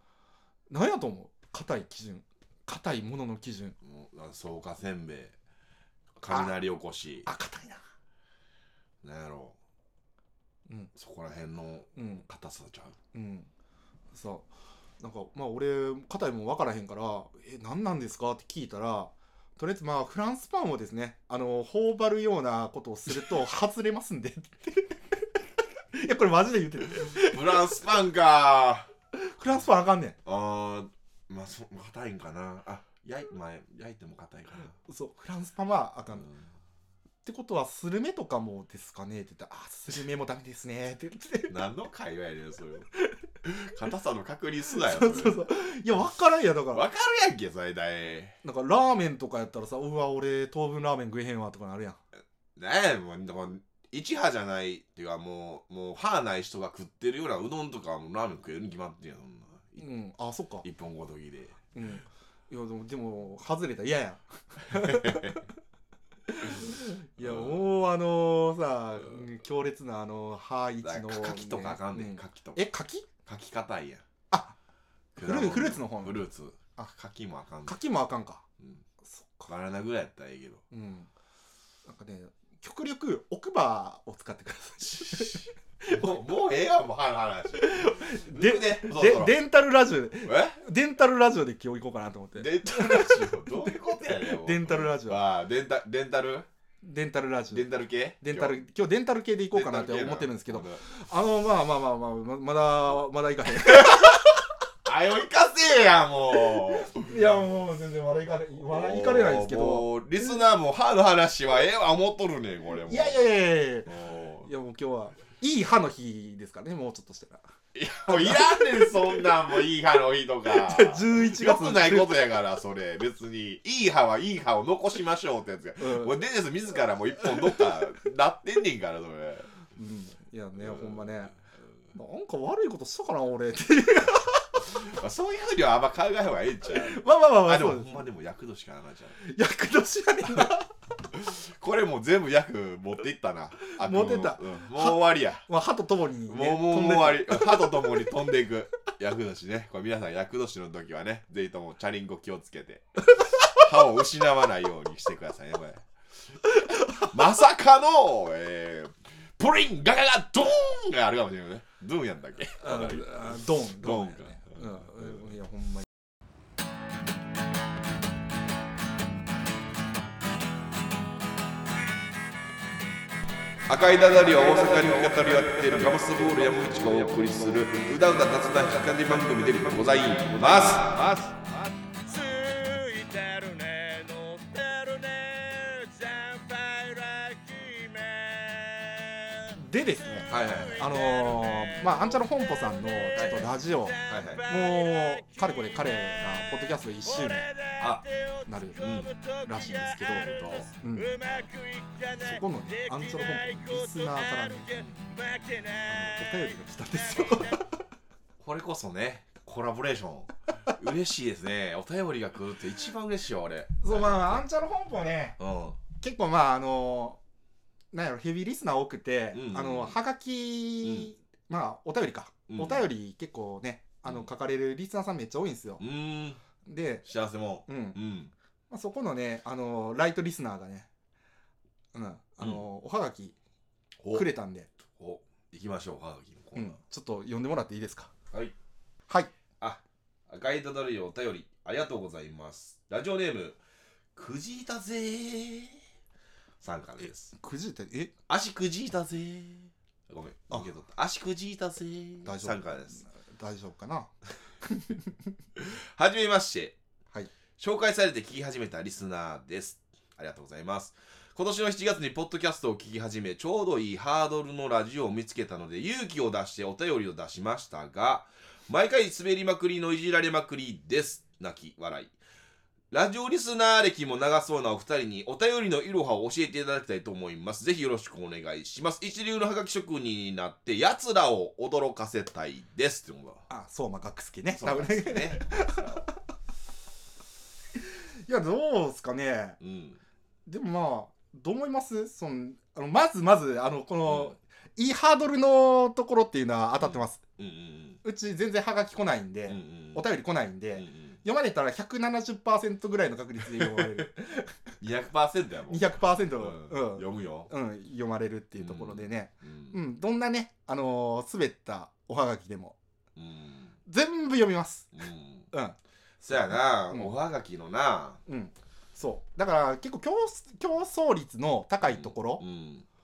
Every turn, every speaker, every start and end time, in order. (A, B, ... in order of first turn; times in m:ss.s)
0:00.7-0:03.8 A
0:03.8-0:05.4 B
0:06.2-0:07.3 B
0:06.3-0:06.6 A
0:07.2-0:07.8 A
0:09.0-0:09.6 B
0:11.0-0:13.0 B
0:12.0-0:12.2 A
0:13.1-0:13.5 A
0:14.1-0:14.5 A
0:15.0-0:25.3 A
0:25.9-0:27.7 A
0:27.0-0:28.9 B
0:29.1-0:30.2 A
0:30.2-0:34.8 B
0:34.9-0:36.3 A
0:36.1-0:36.5 B
0:37.2-0:41.6 A
0:41.5-0:42.9 B
0:43.4-0:45.5 B
0:44.8-0:46.9 A
0:46.7-0:48.4 B
0:48.4-0:52.0 A
0:52.6-0:59.8 B
0:59.8-1:00.6 A
1:00.6-1:01.6 B
1:01.8-1:05.5 A
1:04.7-1:05.4 B
1:06.3-1:13.1 A
1:07.2-1:07.7 B
1:10.8-1:12.6 B
1:13.2-1:14.0 B
1:14.3-1:14.6 A
1:15.2-1:17.8 B
1:15.2-1:16.2 A
1:17.7-1:18.4 A
1:19.0-1:19.5 A
1:19.5-1:20.6 B
1:20.7-1:21.1 A
1:21.8-1:26.2 A
1:24.9-1:29.4 B
1:27.6-1:35.2 A
1:30.2-1:30.6 B
1:32.4-1:36.5 B
1:36.8-1:37.7 A
1:37.5-1:38.6 B
1:38.2-1:44.4 A
1:39.5-1:40.8 B
1:44.8-1:47.1 B
1:46.7-1:49.9 A
1:48.7-1:53.2 B
1:52.9-1:57.5 A
1:53.9-1:54.5 B
1:57.7-2:09.5 B
1:58.1-1:59.3 A
2:00.5-2:02.3 A
2:05.8-2:06.2 A
2:09.8-2:11.4 A
2:10.6-2:11.2 B
2:11.9-2:14.6 A
2:14.7-2:19.2 B
2:16.7-2:18.0 A
2:19.2-2:20.7 A
2:21.1-2:25.4 B
2:23.7-2:27.9 A
2:26.3-2:45.1 B
2:42.6-2:45.9 A
2:53.7-3:01.4 B
3:01.9-3:09.6 C
3:09.6-3:17.5 A
3:10.1-3:16.4 C
3:10.3-3:10.8 B
3:13.2-3:13.5 B
3:14.1-3:14.4 B
3:17.0-3:27.6 C
3:17.8-3:18.0 B
3:18.5-3:18.9 A
3:18.8-3:19.1 B
3:19.4-3:21.1 A
3:20.1-3:20.7 B
3:22.2-3:24.9 A
3:25.9-3:27.8 A
3:28.4-3:34.4 B
3:33.8-3:35.4 A
3:35.4-3:35.8 B
3:36.0-3:37.2 A
3:37.9-3:45.8 A
3:39.3-3:40.0 B
3:40.8-3:41.1 B
3:42.5-3:42.9 B
3:45.8-3:46.4 B
3:46.6-3:47.0 A
3:47.0-3:48.3 B
3:47.7-3:48.0 A
3:48.7-3:50.9 A
3:51.9-3:53.4 A
3:54.0-3:54.3 B
3:54.1-3:54.7 A
3:54.9-3:56.8 B
3:56.6-3:58.1 A
3:59.6-4:03.6 B
4:04.2-4:05.8 B
4:06.6-4:07.3 B
4:07.3-4:08.1 A
4:08.3-4:13.0 B
4:12.2-4:14.1 A
4:14.6-4:15.1 A
4:15.6-4:16.8 B
4:17.6-4:32.2 B
4:32.9-4:43.4 B
4:43.5-4:46.1 A
4:44.5-4:46.1 B
4:48.3-4:49.6 A
4:49.6-4:50.0 B
4:50.5-4:57.2 A
4:54.1-4:54.3 B
4:56.8-4:58.0 B
4:58.0-5:04.5 A
4:59.5-5:00.1 B
5:00.7-5:01.2 B
5:03.6-5:04.0 B
5:04.8-5:07.5 B
5:05.7-5:12.8 A
5:08.6-5:09.8 B
5:13.2-5:13.7 B
5:13.9-5:14.9 A
5:14.9-5:15.5 B
5:15.5-5:15.8 A
5:16.2-5:18.2 B
5:16.3-5:17.1 A
5:18.3-5:22.4 A
5:21.8-5:22.9 B